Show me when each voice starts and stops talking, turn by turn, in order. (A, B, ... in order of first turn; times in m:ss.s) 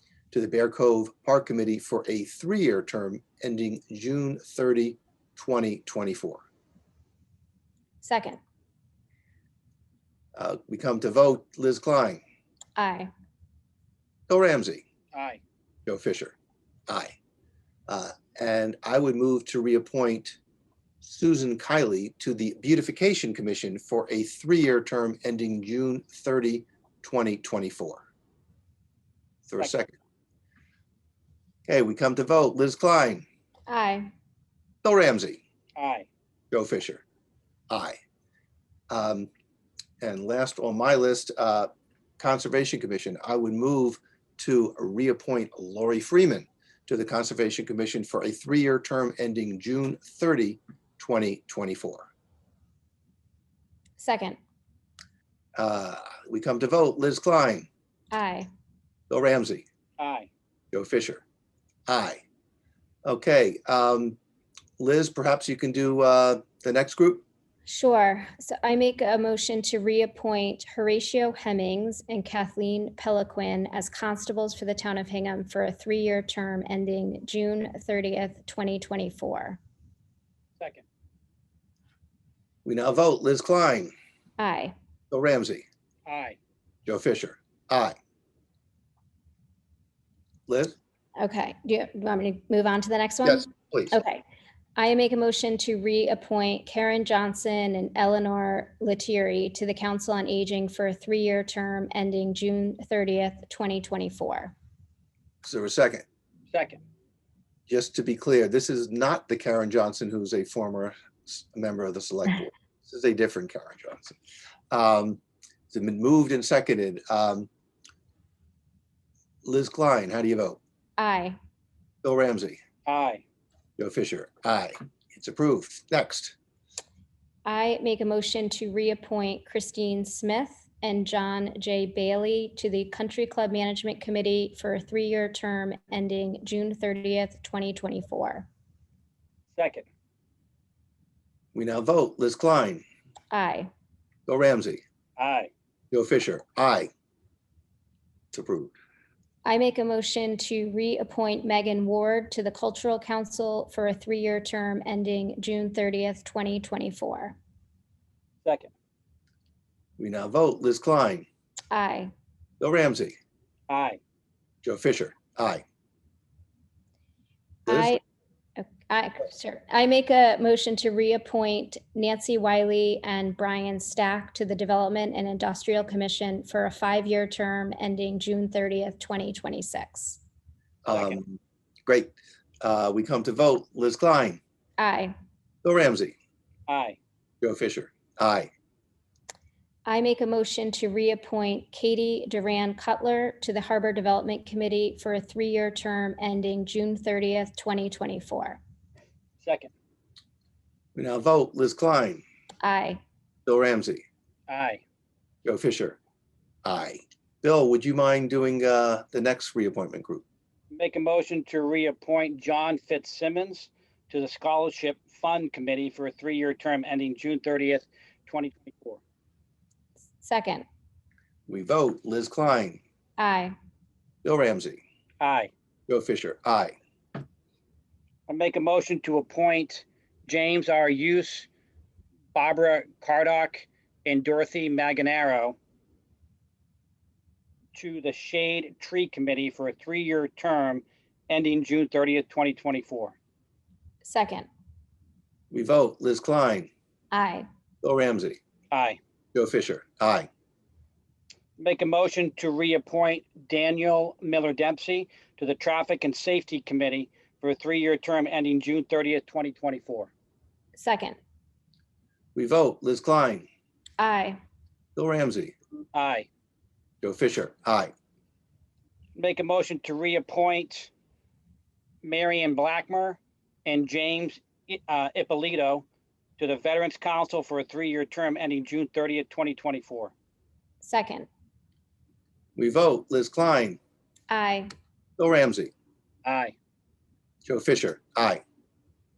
0:00.3-0:06.4 A
0:08.0-0:08.4 B
0:10.3-0:12.2 A
0:12.8-0:13.1 B
0:14.3-0:14.8 A
0:15.1-0:15.4 C
0:15.8-0:16.4 A
0:16.9-0:17.1 A
0:17.9-0:20.4 A
0:21.0-0:28.0 A
0:29.5-0:29.9 A
0:31.6-0:33.2 A
0:33.7-0:34.1 B
0:34.8-0:35.4 A
0:35.8-0:36.0 C
0:36.5-0:37.0 A
0:37.7-0:38.0 A
0:38.9-0:39.3 A
0:40.0-0:52.1 A
0:54.0-0:54.4 B
0:55.6-0:57.7 A
0:58.1-0:58.5 B
0:59.1-0:59.6 A
1:00.0-1:00.3 C
1:00.7-1:01.2 A
1:01.9-1:02.2 A
1:03.0-1:04.2 A
1:04.8-1:07.2 A
1:07.6-1:19.6 B
1:22.6-1:23.9 A
1:24.4-1:24.7 B
1:25.1-1:25.6 A
1:26.0-1:26.4 C
1:26.8-1:28.0 A
1:30.5-1:30.8 A
1:31.2-1:34.2 B
1:33.2-1:34.0 A
1:34.8-1:44.5 B
1:45.4-1:46.0 A
1:46.5-1:46.8 C
1:47.7-1:54.2 A
1:54.7-1:57.5 A
1:59.4-2:00.6 A
2:01.0-2:01.4 B
2:02.0-2:02.6 A
2:02.8-2:03.2 C
2:03.8-2:06.3 A
2:07.4-2:18.5 B
2:19.6-2:19.8 C
2:21.5-2:22.8 A
2:23.3-2:23.7 B
2:24.3-2:24.8 A
2:25.2-2:25.5 C
2:25.9-2:26.9 A
2:28.3-2:28.7 A
2:29.4-2:37.4 B
2:38.4-2:38.7 C
2:40.0-2:41.2 A
2:41.7-2:42.1 B
2:42.6-2:43.2 A
2:43.7-2:44.0 C
2:44.6-2:45.6 A
2:47.7-2:48.0 B
2:47.7-2:48.0 A
2:48.6-3:00.2 B
3:00.8-3:04.4 A
3:04.8-3:05.1 B
3:05.6-3:06.1 A
3:06.7-3:07.0 C
3:07.4-3:08.5 A
3:09.8-3:18.6 B
3:19.4-3:19.7 C
3:20.9-3:22.2 A
3:22.6-3:23.0 B
3:23.4-3:24.0 A
3:24.5-3:24.8 C
3:25.4-3:26.0 A
3:26.6-3:30.2 A
3:30.7-3:39.0 C
3:40.2-3:40.6 B
3:41.5-3:42.8 A
3:43.2-3:43.5 B
3:44.2-3:44.8 A
3:45.2-3:45.5 C
3:45.9-3:46.7 A
3:48.3-3:51.5 C
3:52.3-3:55.6 C
3:57.7-4:03.1 C
4:04.0-4:04.5 B
4:05.5-4:06.7 A
4:07.1-4:07.4 B
4:07.8-4:08.4 A
4:08.7-4:09.0 C
4:09.3-4:10.3 A
4:11.6-4:20.1 C
4:20.8-4:21.2 B
4:22.3-4:23.5 A
4:24.0-4:24.4 B
4:25.0-4:25.5 A
4:25.9-4:26.3 C
4:27.0-4:27.9 A
4:29.1-4:30.9 C
4:32.0-4:35.8 C
4:36.4-4:40.1 C
4:40.8-4:41.3 B
4:42.6-4:43.8 A
4:44.3-4:44.7 B
4:45.2-4:45.7 A
4:46.2-4:46.5 C
4:47.4-4:48.4 A